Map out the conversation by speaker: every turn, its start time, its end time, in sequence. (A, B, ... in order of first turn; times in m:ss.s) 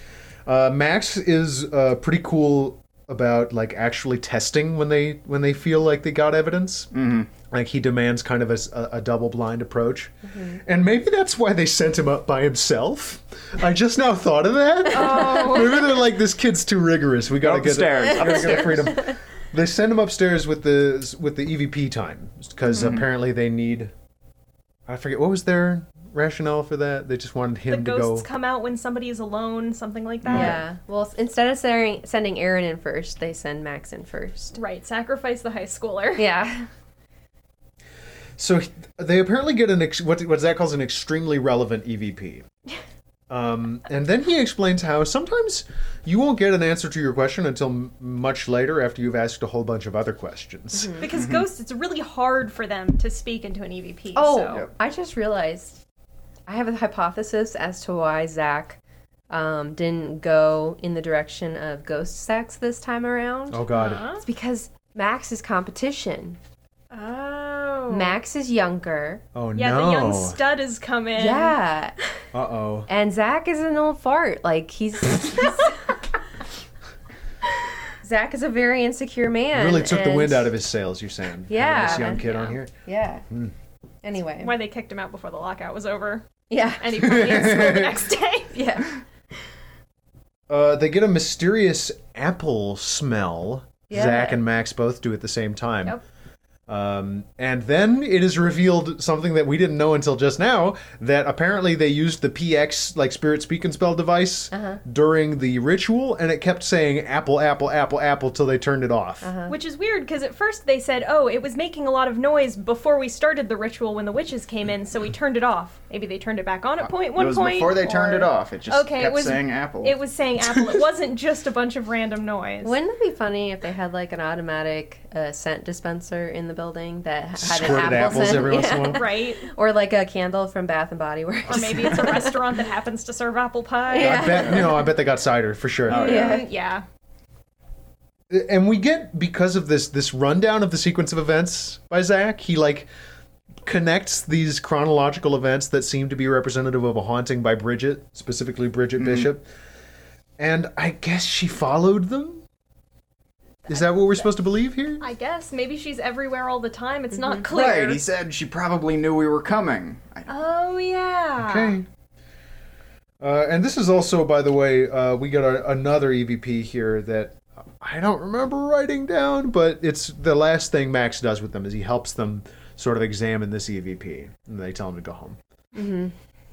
0:00.4-0:06.9 A
0:06.9-0:07.3 B
0:07.5-0:23.9 A
0:10.3-0:10.6 C
0:14.9-0:15.9 D
0:15.0-0:15.7 C
0:17.4-0:19.0 B
0:18.2-0:18.6 C
0:22.7-0:23.0 B
0:24.9-0:28.2 A
0:27.7-0:30.6 D
0:30.2-0:30.5 B
0:30.3-0:30.6 A
0:30.3-0:34.6 C
0:34.5-0:36.2 D
0:36.2-0:36.7 C
0:38.4-0:42.4 A
0:43.3-0:51.0 A
0:50.7-0:51.1 C
0:51.0-0:54.6 D
0:51.2-0:51.4 B
0:54.1-0:55.8 C
0:56.5-0:58.8 C
0:59.3-1:06.4 C
1:03.5-1:04.0 A
1:03.7-1:04.2 D
1:06.9-1:08.2 D
1:07.9-1:09.2 C
1:09.3-1:10.4 A
1:09.6-1:11.6 D
1:11.2-1:11.9 C
1:12.3-1:12.9 A
1:12.9-1:15.8 C
1:18.0-1:20.5 C
1:19.5-1:22.7 A
1:21.5-1:23.2 C
1:21.8-1:22.4 D
1:24.0-1:24.5 C
1:24.4-1:26.3 D
1:26.5-1:27.5 C
1:26.8-1:28.6 D
1:26.9-1:28.0 A
1:28.5-1:28.9 C
1:30.5-1:36.0 A
1:33.9-1:34.4 C
1:36.7-1:49.3 A
1:44.5-1:44.8 C
1:49.2-1:49.6 C
1:49.5-2:02.8 D
1:57.1-2:00.0 B
2:02.6-2:12.4 C
2:07.4-2:09.0 A
2:08.0-2:09.4 D
2:11.5-2:14.7 D
2:13.9-2:14.9 C
2:13.9-2:16.3 A
2:15.9-2:16.4 B
2:15.9-2:16.8 D
2:16.0-2:16.5 C
2:18.3-2:22.9 A
2:23.6-2:29.4 A
2:29.0-2:29.3 B
2:30.4-2:32.4 A
2:33.7-2:35.0 A
2:35.0-2:38.0 D
2:37.1-2:37.5 C
2:37.5-2:40.3 B
2:40.3-2:41.8 D
2:41.4-2:41.8 A
2:43.2-2:55.4 A
2:55.7-2:56.1 C